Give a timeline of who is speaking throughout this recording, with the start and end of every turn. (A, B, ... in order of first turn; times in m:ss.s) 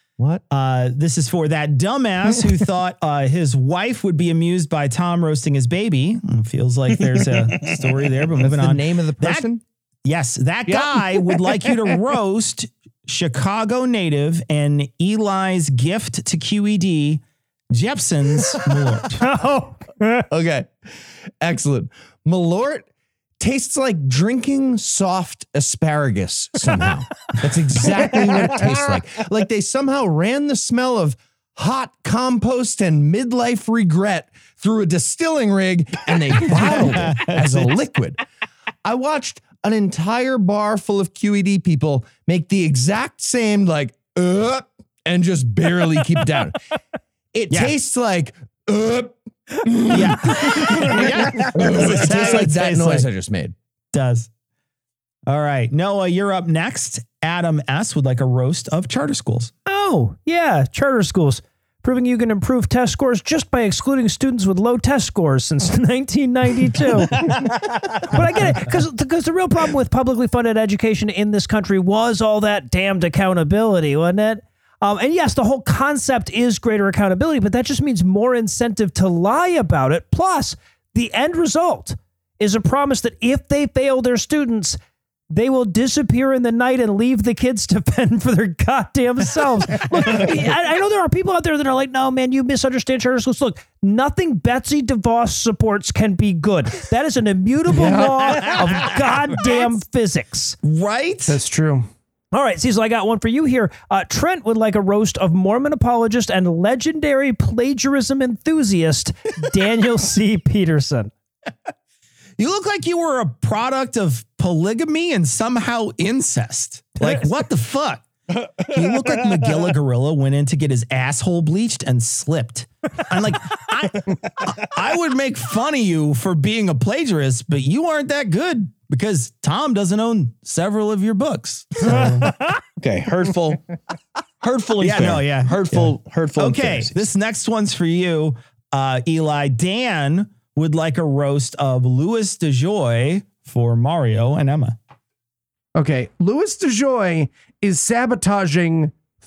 0:00.2-0:00.4 A
0:00.5-0:09.5 B
0:08.4-0:09.6 A
0:10.0-0:17.2 B
0:17.7-0:19.3 B
0:19.2-0:20.3 C
0:20.3-0:20.7 A
0:21.4-0:22.9 A
0:23.4-0:38.2 A
0:36.6-0:37.6 B
0:38.8-0:46.6 A
0:47.3-0:50.8 A
0:49.9-0:53.1 B
0:51.4-0:53.6 A
0:53.9-0:54.3 B
0:55.3-0:59.5 B
0:59.7-1:24.8 C
1:25.3-1:40.6 C
1:30.0-1:30.3 D
1:37.7-1:39.3 D
1:38.7-1:39.8 B
1:40.6-1:41.4 B
1:41.3-1:41.9 D
1:42.3-1:51.1 C
1:52.4-1:58.0 B
1:58.7-2:12.3 B
2:12.8-2:13.7 E
2:14.4-2:17.0 E
2:14.8-2:24.8 B
2:25.8-2:28.9 D